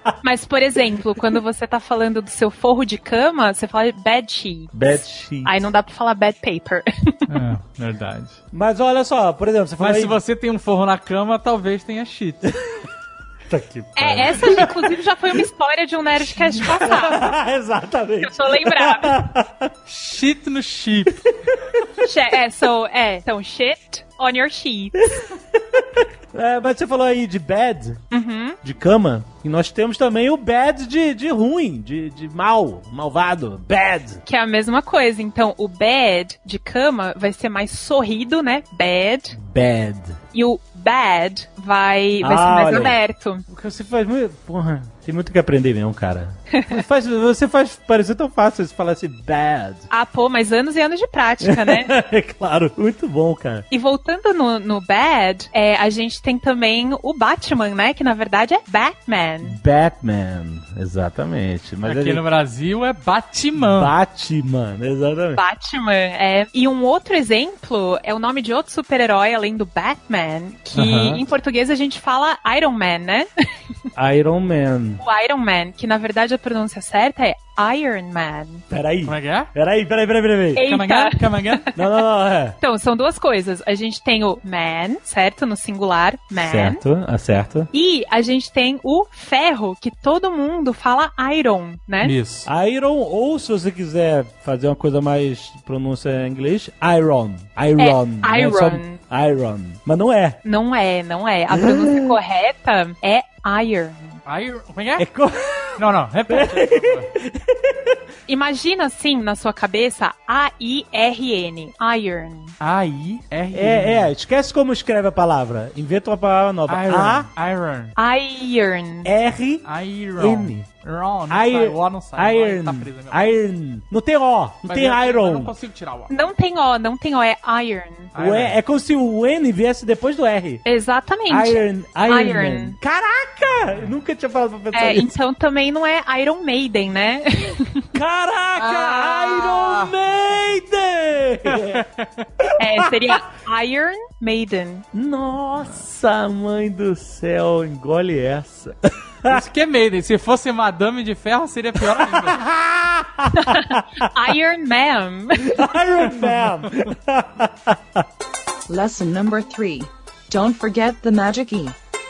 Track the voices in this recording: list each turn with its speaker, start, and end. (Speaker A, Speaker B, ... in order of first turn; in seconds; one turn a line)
Speaker A: 0.2-7.3
Speaker B: 4.7-5.7
Speaker C: 7.3-8.4
Speaker B: 8.5-10.2
Speaker C: 9.8-12.5
Speaker B: 13.5-14.9
Speaker A: 13.9-17.4
Speaker B: 16.6-19.7
Speaker A: 18.2-19.2
Speaker C: 19.9-21.3
Speaker B: 21.5-22.0
Speaker A: 22.0-25.0
Speaker B: 25.2-28.0
Speaker A: 28.1-28.6
Speaker B: 28.6-34.2
Speaker A: 34.2-39.4
Speaker B: 39.4-40.2
Speaker A: 40.3-43.4
Speaker B: 42.2-49.9
Speaker A: 46.5-46.8
Speaker A: 49.9-51.9
Speaker B: 51.4-53.6
Speaker A: 53.7-59.6
Speaker B: 59.4-62.2
Speaker C: 61.8-63.9
Speaker B: 63.6-65.4
Speaker A: 65.3-73.3
Speaker B: 70.7-71.2
Speaker B: 73.9-75.0
Speaker A: 75.0-78.6
Speaker B: 78.7-80.6
Speaker C: 79.0-79.5
Speaker A: 80.5-81.7
Speaker C: 80.6-81.7
Speaker B: 81.7-82.6
Speaker A: 82.6-86.8
Speaker B: 86.3-87.7
Speaker A: 87.7-92.2
Speaker C: 92.0-92.5
Speaker B: 92.4-100.4
Speaker A: 97.8-99.0
Speaker A: 100.4-104.2
Speaker B: 101.5-102.2
Speaker C: 104.2-105.0
Speaker B: 105.0-108.0
Speaker C: 105.8-107.1
Speaker A: 108.3-112.5
Speaker C: 112.6-114.1
Speaker B: 113.5-117.3
Speaker C: 116.7-117.9
Speaker A: 118.0-119.1
Speaker B: 119.0-119.7
Speaker C: 119.6-123.3
Speaker B: 120.2-120.7
Speaker B: 121.3-125.5
Speaker C: 124.7-126.1
Speaker A: 126.1-128.1
Speaker C: 128.1-128.6
Speaker B: 128.2-130.6
Speaker A: 130.6-132.8
Speaker B: 131.3-135.1
Speaker A: 134.7-137.9
Speaker B: 137.9-141.8
Speaker C: 138.6-140.0
Speaker C: 141.4-142.2
Speaker B: 142.4-143.2
Speaker A: 142.6-144.8
Speaker B: 144.9-149.4
Speaker C: 149.2-152.4
Speaker B: 151.8-154.1
Speaker A: 153.3-155.6
Speaker B: 155.4-158.1
Speaker C: 156.2-156.5
Speaker D: 158.7-161.8